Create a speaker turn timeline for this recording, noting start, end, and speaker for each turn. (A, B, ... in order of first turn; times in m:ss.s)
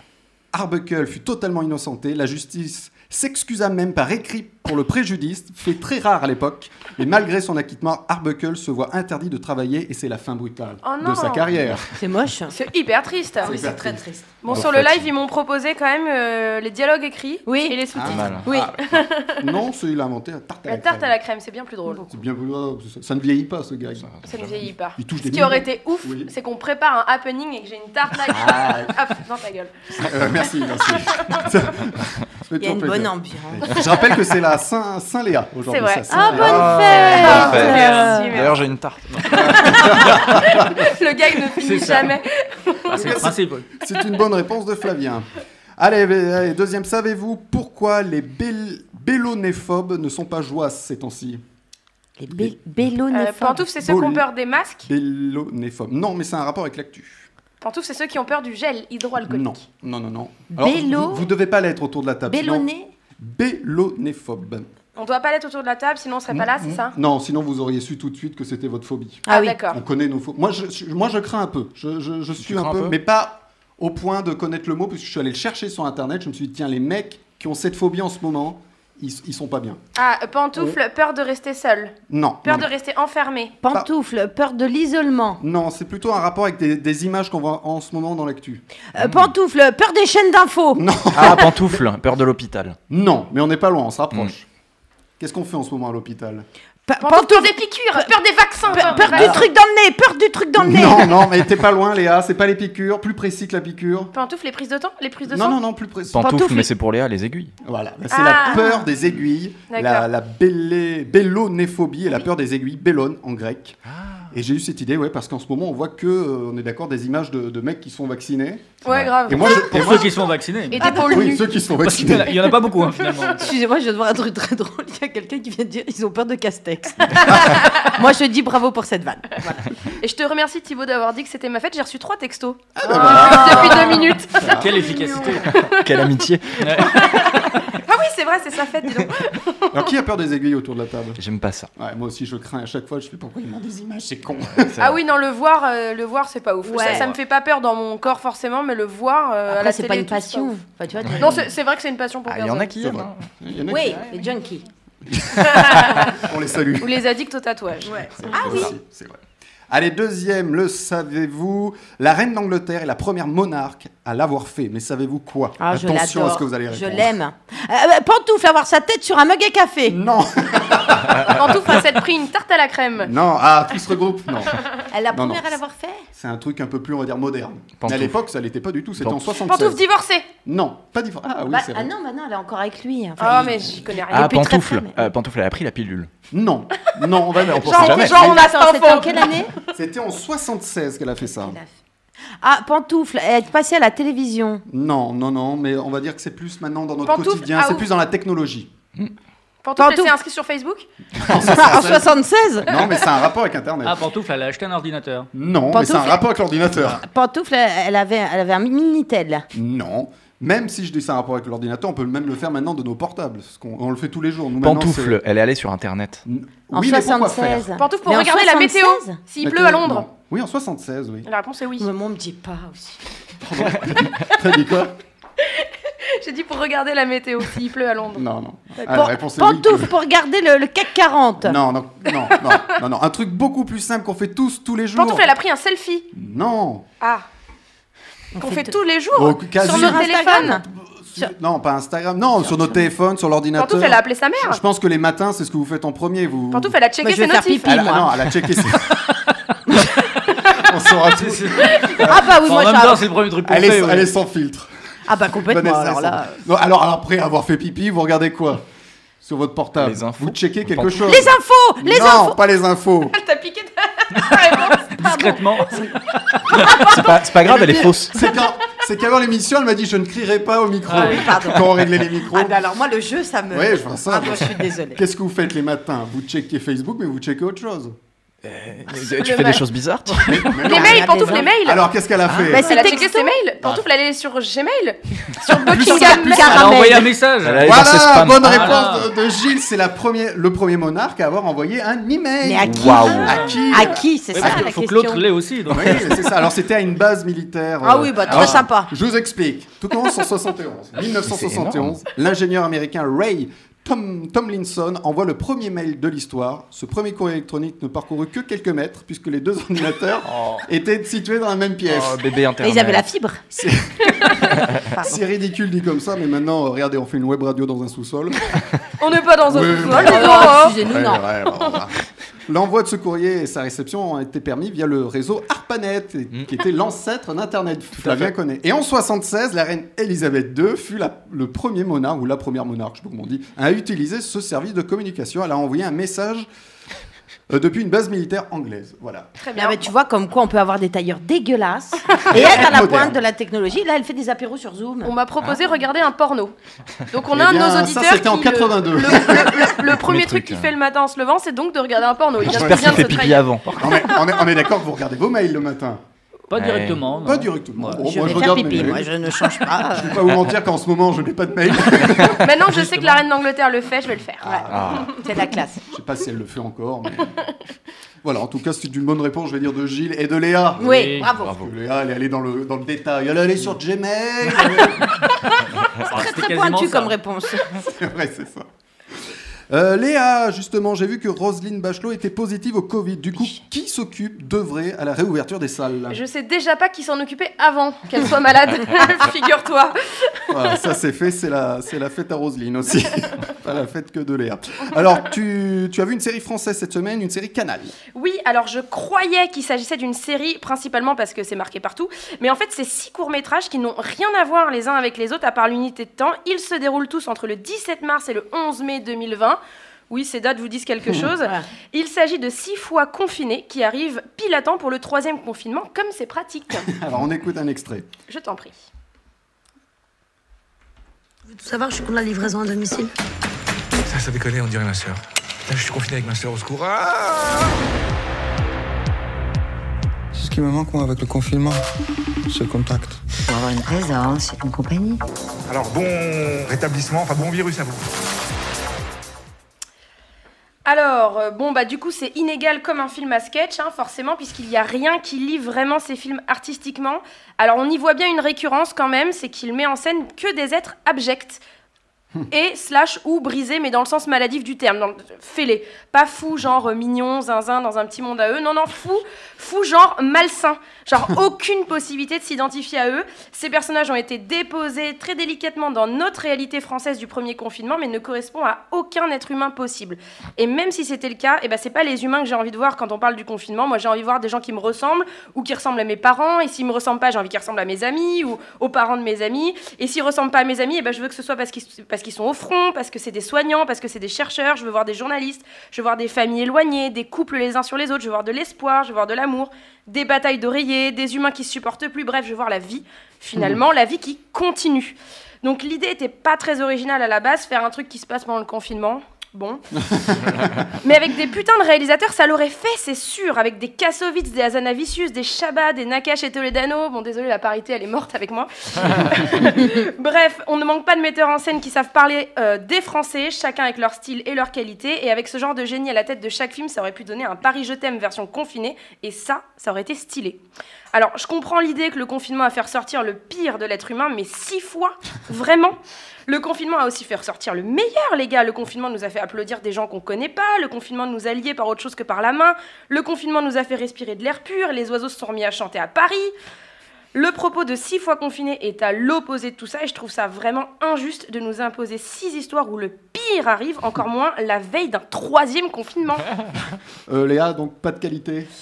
0:00.5-0:11.9 A
0:10.8-0:11.5 B
0:12.0-0:12.6 C
0:12.5-0:13.6 B
0:13.4-0:14.9 A
0:13.4-0:14.2 C
0:14.4-0:19.4 B
0:14.5-0:15.0 D
0:17.4-0:17.8 C
0:17.9-0:21.1 A
0:18.0-0:18.7 D
0:18.4-0:18.7 C
0:20.7-0:22.0 B
0:22.1-0:24.2 A
0:24.0-0:24.7 D
0:24.2-0:30.0 B
0:25.0-0:26.3 A
0:28.3-0:29.0 A
0:30.0-0:37.7 A
0:30.8-0:31.5 B
0:32.6-0:33.6 C
0:35.7-0:38.7 B
0:36.1-0:38.3 C
0:36.3-0:39.7 D
0:37.7-0:38.2 E
0:39.2-0:43.0 B
0:39.3-0:40.9 A
0:41.6-0:42.2 E
0:42.9-0:43.7 E
0:43.0-0:51.4 A
0:52.2-0:53.6 C
0:52.3-0:52.6 A
0:53.1-0:54.9 B
0:53.8-0:54.3 A
0:54.8-0:57.3 A
0:57.6-0:59.6 B
0:59.3-1:02.7 A
1:00.5-1:01.3 C
1:02.3-1:02.9 C
1:03.2-1:04.7 A
1:05.0-1:06.9 B
1:06.3-1:19.8 A
1:09.3-1:09.6 C
1:09.3-1:09.8 B
1:12.4-1:13.0 D
1:20.0-1:23.5 B
1:22.1-1:22.7 A
1:23.6-1:25.4 C
1:25.4-1:28.6 A
1:28.9-1:30.8 C
1:29.0-1:29.3 D
1:30.8-1:31.8 A
1:31.1-1:32.8 D
1:32.9-1:34.4 A
1:35.2-1:36.4 A
1:36.9-1:38.1 C
1:37.0-1:39.4 B
1:38.7-1:39.3 E
1:38.7-1:41.2 C
1:40.6-1:44.1 A
1:44.1-1:45.6 B
1:45.3-1:46.4 A
1:46.1-1:47.5 D
1:46.2-1:46.7 C
1:47.6-1:53.8 A
1:48.1-1:48.7 B
1:49.7-1:50.0 B
1:53.9-1:54.2 D
1:54.3-2:00.3 A
1:58.8-2:00.1 B
1:58.9-1:59.2 D
1:59.3-2:01.1 E
2:00.7-2:01.4 B
2:00.8-2:01.1 C
2:01.1-2:02.5 A
2:01.8-2:03.5 E
2:03.4-2:09.7 C
2:10.0-2:14.4 B
2:12.8-2:15.4 A
2:12.9-2:13.4 E
2:13.0-2:14.0 C
2:14.4-2:15.5 E
2:15.5-2:17.4 D
2:15.6-2:15.9 B
2:16.6-2:17.0 E
2:17.0-2:19.9 B
2:19.7-2:21.2 A
2:21.2-2:21.7 D
2:21.8-2:24.8 A
2:24.7-2:25.0 D
2:24.8-2:30.5 B
2:26.6-2:27.1 C
2:29.5-2:31.4 C
2:31.2-2:32.7 B
2:32.3-2:33.3 D
2:32.8-2:34.2 A
2:33.7-2:34.6 C
2:35.1-2:37.0 A
2:35.4-2:36.2 B
2:36.8-2:38.6 B
2:37.8-2:47.1 A
2:37.9-2:38.7 C
2:45.6-2:50.0 C
2:49.9-2:51.8 A
2:51.2-2:53.1 B
2:53.0-2:55.6 A
2:54.9-2:56.0 C
2:56.1-2:59.8 A
2:57.8-2:58.1 D
2:59.4-3:00.3 B
3:00.4-3:01.9 A
3:01.5-3:05.1 C
3:03.2-3:04.4 B
3:03.4-3:03.7 A
3:04.1-3:06.1 D
3:06.3-3:08.4 A
3:07.4-3:08.2 D
3:07.6-3:09.4 B
3:07.7-3:09.5 C
3:09.7-3:11.6 A
3:11.2-3:11.7 C
3:12.4-3:14.6 C
3:14.7-3:18.7 A
3:17.0-3:17.9 B
3:19.6-3:20.9 B
3:19.8-3:20.1 C
3:21.2-3:24.0 A
3:21.3-3:22.8 C
3:23.8-3:25.3 E
3:25.3-3:27.0 A
3:25.7-3:26.2 C
3:27.0-3:29.4 C
3:29.5-3:35.2 A
3:34.6-3:36.2 D
3:36.2-3:37.7 A
3:36.7-3:39.2 C
3:37.8-3:40.1 B
3:39.4-3:41.3 A
3:41.2-3:41.9 B
3:41.8-3:43.0 C
3:43.4-3:45.0 A
3:45.5-3:48.2 B
3:48.1-3:49.9 A
3:48.8-3:51.6 C
3:51.4-3:55.3 A
3:54.9-3:56.1 B
3:56.1-3:56.8 A
3:58.4-3:58.7 C
3:58.4-4:00.6 B
3:59.1-4:06.8 A
3:59.6-4:00.6 C
4:03.6-4:04.6 B
4:06.5-4:07.8 B
4:07.0-4:08.1 C
4:07.6-4:09.0 A
4:10.5-4:12.3 A
4:11.2-4:14.1 E
4:12.0-4:13.1 C
4:13.4-4:14.7 A
4:15.1-4:16.4 C
4:15.4-4:18.6 A
4:19.2-4:23.2 A
4:19.8-4:21.2 D
4:21.0-4:22.4 C
4:23.1-4:24.9 B
4:25.0-4:26.8 E
4:25.0-4:25.9 C
4:26.5-4:27.0 C
4:26.8-4:28.1 D
4:27.5-4:32.6 A
4:30.9-4:31.3 E
4:30.9-4:31.7 C
4:32.2-4:35.0 C
4:33.5-4:38.0 A
4:38.4-4:40.5 D
4:39.0-4:39.6 B
4:40.1-4:41.5 C
4:40.2-4:42.9 A
4:40.6-4:41.9 B
4:42.4-4:43.4 C
4:42.5-4:46.6 B
4:43.6-4:43.9 A
4:45.4-4:47.1 C
4:45.7-4:46.6 A
4:46.3-4:49.1 E
4:47.4-4:48.8 D
4:47.6-4:54.7 A
4:52.4-4:55.2 C
4:52.6-4:53.5 D
4:54.3-4:56.1 E
4:55.7-5:12.2 A
4:57.8-4:58.9 C
5:01.2-5:02.0 D
5:10.3-5:10.6 D
5:11.8-5:13.1 D
5:12.6-5:13.4 C
5:13.5-5:18.6 A
5:19.0-5:20.8 B
5:19.4-5:21.9 A
5:19.8-5:21.2 C
5:22.5-5:36.5 A
5:37.5-5:39.3 A
5:39.4-5:39.9 B
5:39.6-5:45.1 C
5:42.3-5:43.2 A
5:45.0-5:46.5 B
5:47.1-5:53.9 B
5:47.3-5:49.8 A
5:49.8-5:50.7 D
5:52.4-5:53.9 D
5:52.4-5:53.2 A
5:53.8-5:56.0 A
5:56.5-5:58.6 E
5:56.5-5:57.0 D
5:57.2-6:02.7 A
5:58.0-6:00.3 C
6:02.4-6:04.5 B
6:04.4-6:05.2 A
6:04.4-6:05.8 C
6:04.7-6:05.1 D
6:05.9-6:07.3 A
6:08.2-6:15.1 A
6:10.8-6:11.5 C
6:10.9-6:11.3 E
6:11.4-6:11.7 D
6:16.0-6:17.2 E
6:16.0-6:17.7 C
6:17.8-6:18.7 A
6:19.7-6:26.2 A
6:26.1-6:30.4 B
6:30.5-6:37.9 A
6:38.1-6:56.9 B
6:56.9-6:58.1 A
6:58.3-6:58.8 B
7:01.5-7:03.1 F
7:04.0-7:07.8 G
7:10.3-7:11.8 H
7:12.5-7:13.2 H
7:13.5-7:15.2 F
7:15.7-7:18.0 G
7:20.8-7:31.6 B
7:32.5-8:19.8 B
8:20.0-8:20.8 A
8:21.0-8:40.6 B
8:41.1-8:56.5 B
8:57.3-9:06.4 B
9:07.3-9:08.7 A